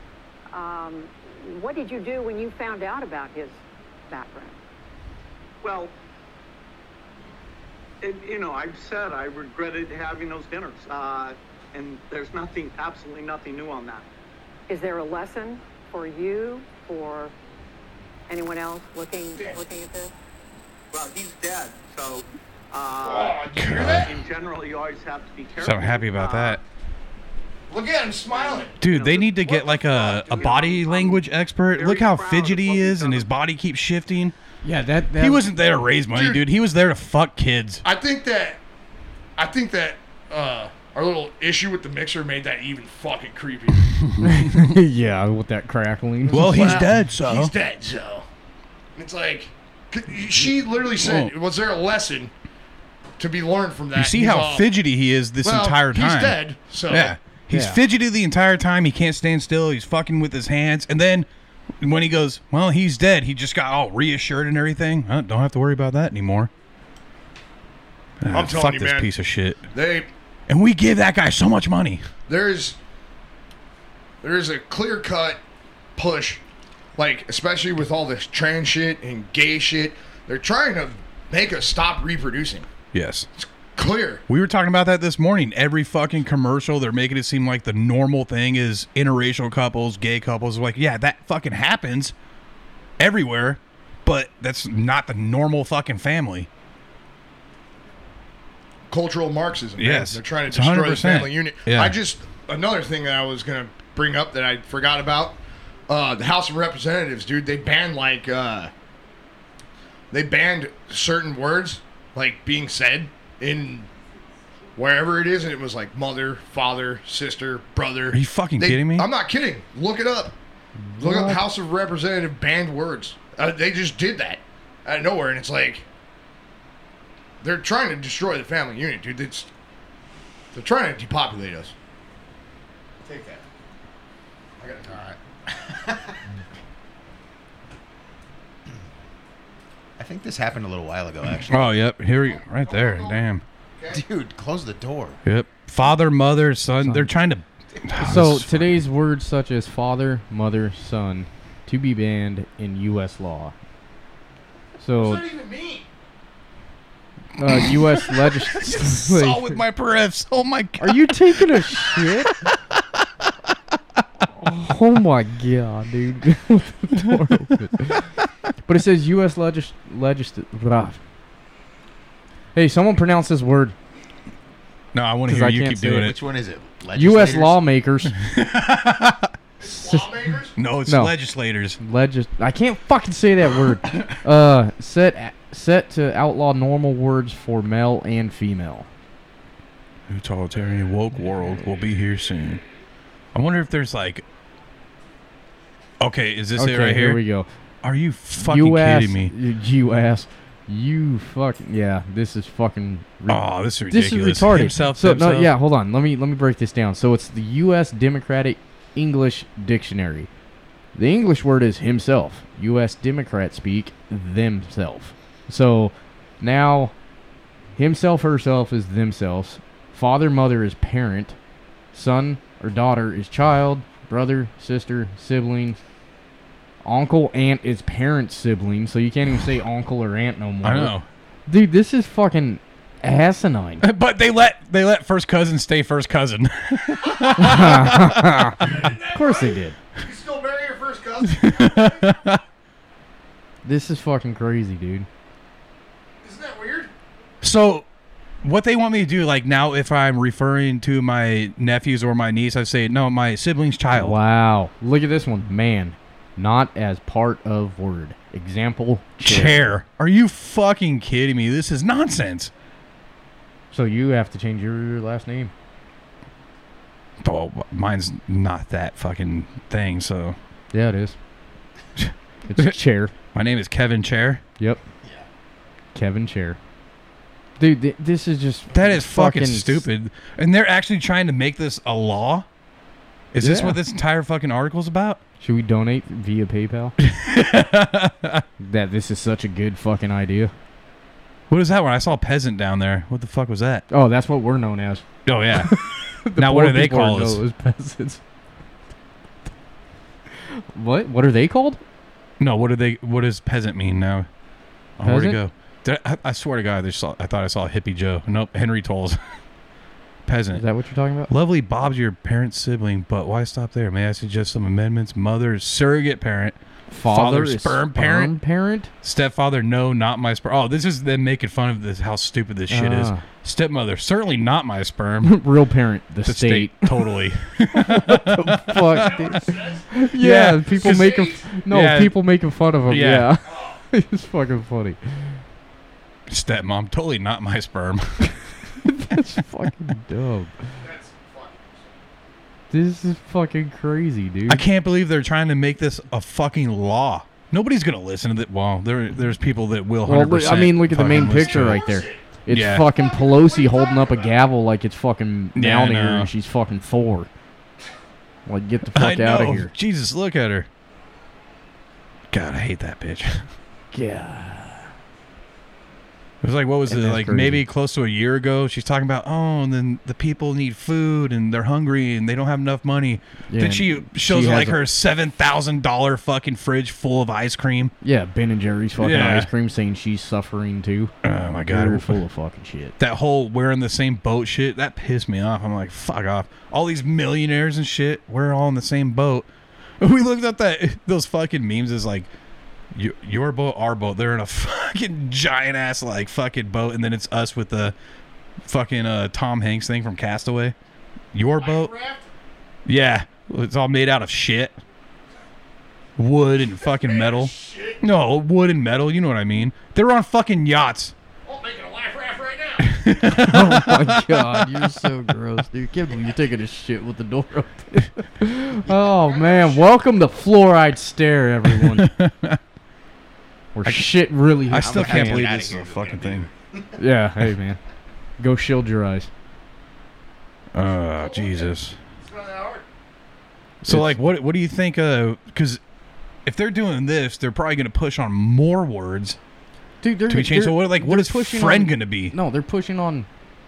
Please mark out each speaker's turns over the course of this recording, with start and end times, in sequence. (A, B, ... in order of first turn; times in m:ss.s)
0:00.5-0:04.6 A
0:05.6-0:05.9 B
0:08.0-0:14.1 B
0:14.7-0:17.3 A
0:18.3-0:20.1 A
0:20.9-0:26.6 B
0:23.0-0:24.2 C
0:23.6-0:24.1 D
0:25.6-0:26.6 D
0:27.7-0:28.8 C
0:28.3-0:33.3 B
0:28.8-0:34.4 D
0:29.5-0:30.6 C
0:34.6-0:35.4 E
0:35.2-0:37.8 D
0:36.1-0:36.5 C
0:37.8-0:38.6 C
0:39.4-0:44.0 C
0:44.0-0:44.6 D
0:44.2-0:46.8 E
0:46.2-0:48.3 C
0:46.3-0:47.5 D
0:49.0-0:52.3 C
0:51.0-0:51.3 D
0:53.2-0:54.8 C
0:54.0-0:56.4 D
0:55.4-0:57.2 C
0:56.9-1:01.3 D
0:57.5-0:57.8 E
1:01.8-1:06.5 D
1:08.2-1:09.6 D
1:08.3-1:09.1 C
1:09.7-1:10.1 C
1:10.5-1:12.1 D
1:12.3-1:12.8 C
1:14.2-1:15.4 C
1:16.0-1:16.4 C
1:17.0-1:22.7 C
1:22.9-1:23.3 D
1:23.4-1:24.2 C
1:24.3-1:32.1 D
1:33.0-1:36.5 D
1:38.9-1:45.4 C
1:39.8-1:42.0 D
1:45.9-1:48.7 C
1:50.1-1:53.9 C
1:54.8-2:00.4 C
1:58.1-1:59.1 D
2:00.8-2:01.5 E
2:01.0-2:05.8 C
2:07.4-2:09.5 C
2:10.5-2:11.7 C
2:13.0-2:13.5 C
2:14.6-2:15.0 C
2:14.9-2:16.2 F
2:20.0-2:21.8 F
2:21.5-2:23.4 D
2:22.3-2:23.2 C
2:23.8-2:24.0 C
2:23.9-2:25.2 F
2:25.2-2:28.8 D
2:26.8-2:27.1 E
2:28.0-2:33.5 E
2:34.8-2:35.3 E
2:35.0-2:35.9 C
2:37.4-2:39.6 E
2:37.4-2:43.6 D
2:40.8-2:42.3 E
2:44.4-2:48.1 E
2:48.6-2:51.0 E
2:52.6-2:53.8 E
2:54.9-2:56.2 D
2:55.3-2:56.1 E
2:56.0-2:57.6 F
2:57.0-2:58.1 E
2:58.1-2:59.3 D
2:59.6-3:00.6 C
3:00.6-3:01.8 D
3:00.9-3:01.2 E
3:01.8-3:08.9 E
3:10.1-3:12.6 D
3:13.3-3:14.2 D
3:16.0-3:17.2 D
3:16.6-3:17.5 E
3:17.8-3:19.3 D
3:18.4-3:30.3 E
3:23.3-3:25.5 D
3:31.0-3:36.9 E
3:37.8-3:41.4 E
3:41.9-3:45.8 E
3:46.8-3:51.0 E
3:50.6-3:51.0 D
3:51.5-3:53.8 E
3:53.8-3:58.8 D
3:57.4-3:59.8 E
3:58.6-4:02.2 C
4:01.4-4:02.4 D
4:03.6-4:05.1 E
4:06.2-4:06.9 C
4:07.4-4:07.9 D
4:08.4-4:14.2 D
4:13.9-4:19.7 E
4:19.2-4:22.5 D
4:23.7-4:25.5 E
4:27.2-4:30.4 D
4:30.7-4:31.2 E
4:32.0-4:32.8 D
4:32.5-4:33.1 E
4:33.3-4:34.4 D
4:36.0-4:36.6 E
4:37.6-4:39.8 E
4:38.7-4:42.5 D
4:43.3-4:45.2 D
4:43.4-4:43.8 E
4:45.4-4:47.0 E
4:47.0-4:48.4 D
4:48.6-4:50.5 E
4:51.5-4:53.9 D
4:53.9-4:55.0 E
4:55.2-4:57.4 D
4:55.6-4:58.2 E
5:00.5-5:01.8 E
5:02.4-5:04.3 D
5:05.0-5:09.2 D
5:05.0-5:05.4 E
5:10.3-5:10.6 D
5:10.5-5:11.3 E
5:11.3-5:18.3 D
5:16.9-5:18.9 E
5:19.0-5:25.4 D
5:22.7-5:23.2 E
5:25.2-5:35.0 E
5:26.2-5:29.4 D
5:28.9-5:29.9 C
5:30.0-5:32.2 D
5:30.7-5:31.5 C
5:32.9-5:33.3 D
5:33.4-5:33.8 C
5:36.3-5:38.4 D
5:38.8-5:40.5 E
5:40.8-5:42.0 C
5:42.7-5:44.6 E
5:44.5-5:51.8 D
5:50.1-5:57.3 E
5:51.4-5:52.2 C
5:52.5-5:52.9 D
5:52.8-5:54.4 C
5:55.6-5:56.3 D
5:58.5-5:59.7 E
5:58.9-6:00.7 D
6:02.3-6:03.5 D
6:03.9-6:04.9 E
6:06.4-6:17.9 D
6:06.9-6:07.6 E
6:13.5-6:14.8 E
6:18.0-6:23.0 E
6:19.0-6:19.5 D
6:21.2-6:22.2 D
6:23.0-6:29.5 D
6:30.0-6:32.3 D
6:32.9-6:37.9 D
6:38.6-6:40.8 D
6:41.3-6:41.9 D
6:41.6-6:42.3 C
6:42.9-6:44.8 D
6:46.2-6:51.1 D
6:46.8-6:48.0 C
6:51.4-6:53.2 C
6:52.9-6:54.9 D
6:53.3-7:02.1 E
6:58.9-7:00.0 C
7:01.8-7:02.6 D
7:03.8-7:05.5 E
7:03.8-7:04.2 D
7:04.7-7:06.5 D
7:04.8-7:06.9 F
7:07.0-7:07.8 E
7:08.4-7:09.3 E
7:10.7-7:12.0 D
7:11.1-7:12.9 C
7:13.8-7:15.8 D
7:13.9-7:14.2 E
7:16.4-7:19.4 D
7:20.0-7:23.3 E
7:20.3-7:22.4 D